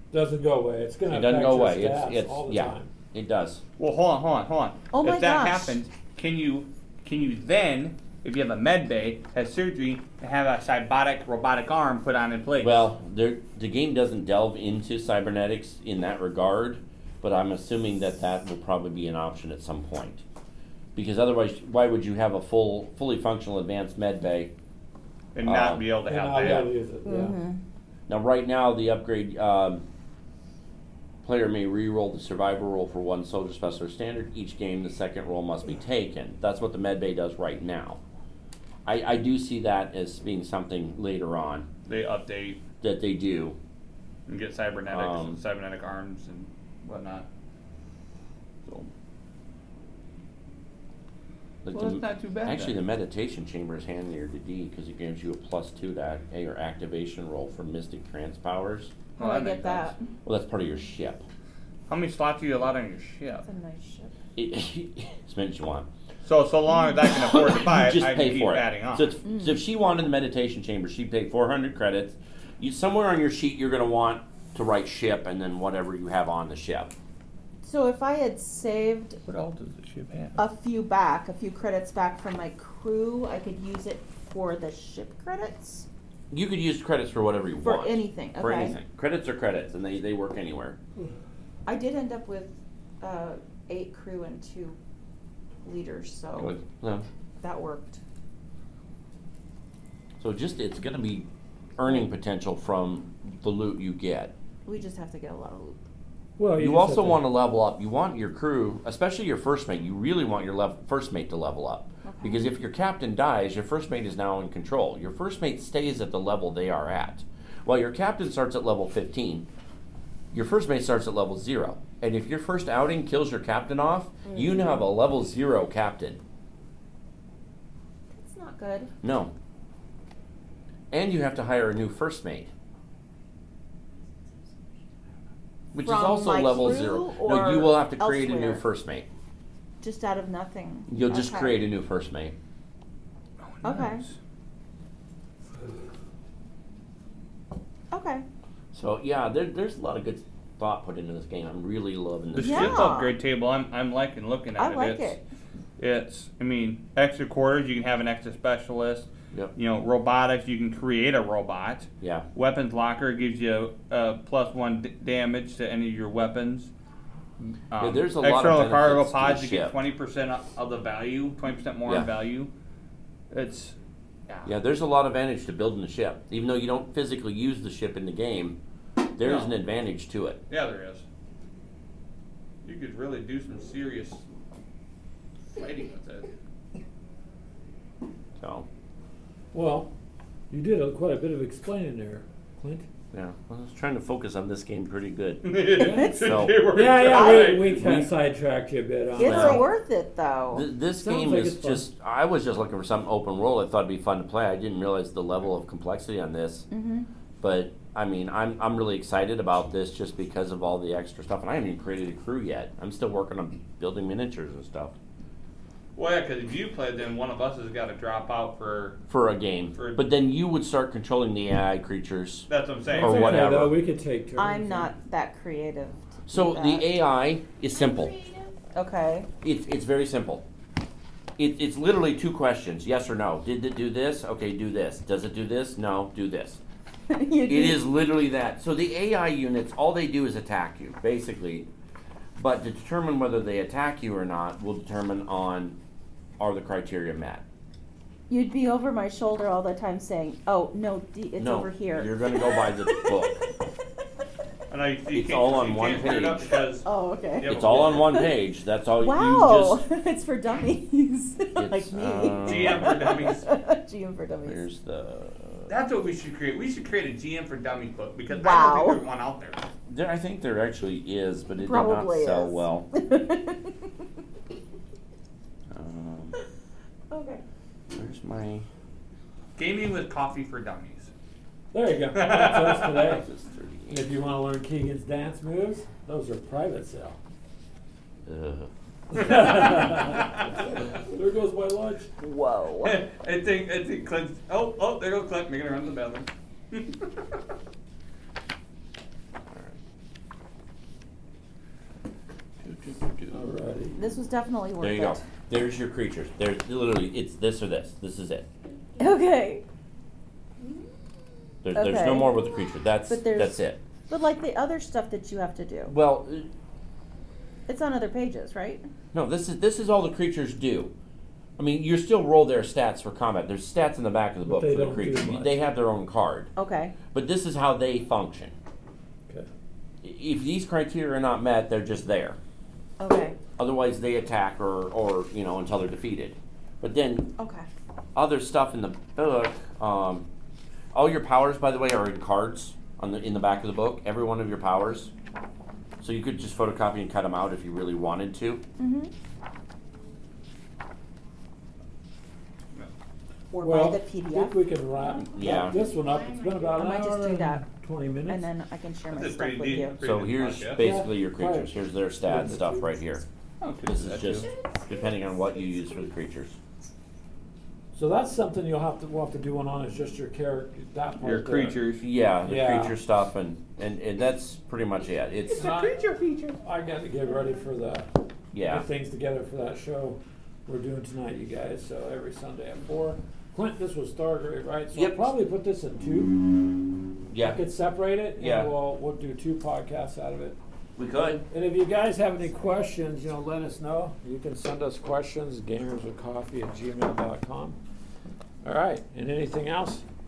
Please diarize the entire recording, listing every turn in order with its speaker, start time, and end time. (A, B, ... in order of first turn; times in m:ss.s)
0:00.1-0:02.9 A
0:01.1-0:03.6 B
0:03.8-0:12.8 C
0:04.9-0:05.8 D
0:12.6-0:20.2 B
0:20.9-0:24.5 B
0:25.3-0:26.7 C
0:25.4-0:25.9 B
0:26.0-0:27.3 A
0:27.0-0:27.6 D
0:28.1-0:29.8 B
0:31.2-0:38.0 B
0:38.8-0:41.7 B
0:41.8-0:42.6 C
0:42.8-0:43.6 B
0:44.3-0:47.3 C
0:44.9-0:45.4 B
0:48.6-0:48.9 C
0:51.6-0:58.9 B
0:51.7-0:52.8 C
0:59.2-0:59.9 C
0:59.2-1:00.1 D
1:00.2-1:01.2 B
1:01.9-1:03.4 C
1:03.4-1:04.1 D
1:04.4-1:05.9 B
1:06.2-1:09.1 C
1:07.1-1:16.9 B
1:09.3-1:09.6 D
1:17.6-1:19.2 D
1:19.3-1:20.4 C
1:20.4-1:25.9 D
1:26.3-1:30.8 B
1:27.6-1:28.8 D
1:31.6-1:34.8 D
1:35.6-1:36.6 D
1:36.4-1:37.0 B
1:37.4-1:38.0 D
1:40.2-1:44.3 B
1:44.6-1:45.8 D
1:46.4-1:47.2 A
1:46.6-1:59.5 B
1:52.0-1:52.4 D
2:00.3-2:06.2 B
2:04.3-2:04.8 D
2:08.1-2:08.9 D
2:09.0-2:09.3 B
2:10.9-2:12.5 B
2:15.7-2:19.1 B
2:15.8-2:18.6 D
2:19.8-2:21.6 D
2:20.9-2:22.3 B
2:23.4-2:24.2 C
2:23.6-2:24.0 D
2:27.9-2:28.3 D
2:28.7-2:32.9 B
2:32.3-2:35.2 C
2:32.4-2:33.1 D
2:34.6-2:35.2 D
2:35.8-2:46.7 C
2:42.0-2:42.3 B
2:47.7-2:52.5 C
2:47.8-2:49.8 B
2:51.8-2:52.1 B
2:53.3-2:53.7 C
2:54.4-2:58.6 B
2:59.2-3:00.4 B
2:59.2-2:59.6 C
3:00.5-3:01.0 C
3:02.6-3:04.2 C
3:05.5-3:06.3 C
3:08.4-3:08.7 B
3:09.5-3:09.9 A
3:10.5-3:12.8 A
3:13.1-3:16.6 B
3:15.4-3:18.0 C
3:15.7-3:16.2 A
3:15.8-3:16.4 D
3:16.7-3:19.7 A
3:17.1-3:17.7 D
3:17.7-3:18.1 B
3:19.1-3:20.6 D
3:19.2-3:19.6 B
3:20.5-3:26.7 B
3:21.0-3:21.8 A
3:26.7-3:27.1 D
3:27.4-3:34.9 B
3:36.0-3:39.0 C
3:39.1-3:43.8 B
3:39.7-3:40.0 C
3:42.5-3:43.7 C
3:42.9-3:44.9 A
3:44.4-3:46.9 D
3:46.3-3:48.1 B
3:47.7-3:48.6 E
3:48.7-3:49.3 D
3:49.4-3:50.4 B
3:51.4-3:56.6 B
3:57.1-3:57.8 D
3:57.4-4:01.7 B
4:02.4-4:05.8 B
4:06.4-4:07.4 B
4:08.3-4:13.1 D
4:11.4-4:13.4 B
4:14.7-4:16.8 C
4:15.1-4:16.6 B
4:16.8-4:18.3 D
4:17.4-4:18.1 C
4:17.4-4:19.8 B
4:19.0-4:24.6 D
4:21.6-4:23.2 B
4:22.4-4:23.4 C
4:24.4-4:25.7 B
4:25.7-4:29.6 C
4:28.3-4:29.0 D
4:29.9-4:32.9 B
4:31.6-4:33.9 D
4:35.7-4:36.4 B
4:37.1-4:37.4 D
4:37.9-4:38.7 B
4:39.6-4:41.1 C
4:41.7-4:43.2 A
4:42.1-4:43.1 C
4:43.0-4:44.2 B
4:43.9-4:47.2 A
4:48.3-4:48.7 B
4:49.1-4:52.1 A
4:49.1-4:50.6 C
4:52.2-4:53.0 D
4:52.8-4:57.1 C
4:59.5-4:59.8 B
5:02.6-5:03.4 B
5:03.3-5:04.0 A
5:04.0-5:05.2 D
5:04.8-5:08.5 B
5:08.6-5:09.2 E
5:09.0-5:09.6 D
5:10.6-5:10.9 E
5:11.6-5:13.8 B
5:11.7-5:12.4 D
5:13.1-5:15.9 D
5:15.9-5:16.5 B
5:17.7-5:18.8 D
5:19.1-5:20.9 B
5:21.6-5:26.5 B
5:24.4-5:25.6 A
5:26.6-5:26.9 D
5:27.1-5:28.6 B
5:30.0-5:32.4 B
5:33.0-5:33.4 D
5:33.6-5:37.3 B
5:37.4-5:37.6 D
5:38.1-5:40.3 B
5:40.9-5:45.1 B
5:46.0-5:48.6 B
5:48.8-5:49.1 D
5:53.5-5:54.6 D
5:53.6-5:58.4 A
5:55.0-5:56.9 E
5:55.3-5:55.8 B
5:56.7-5:57.6 D
5:58.3-6:00.0 D
5:59.1-6:00.9 C
6:00.0-6:03.2 B
6:00.8-6:03.0 A
6:03.6-6:04.5 C
6:03.8-6:06.6 B
6:04.4-6:05.8 E
6:07.9-6:11.8 A
6:11.2-6:12.0 C
6:12.0-6:15.6 B
6:12.4-6:13.0 A
6:15.5-6:16.6 C
6:15.5-6:26.7 A
6:18.5-6:18.8 B
6:24.9-6:25.3 B
6:27.3-6:27.6 B
6:27.4-6:30.6 A
6:28.4-6:28.7 B
6:31.0-6:31.4 B
6:31.5-6:37.8 A
6:38.6-6:40.0 A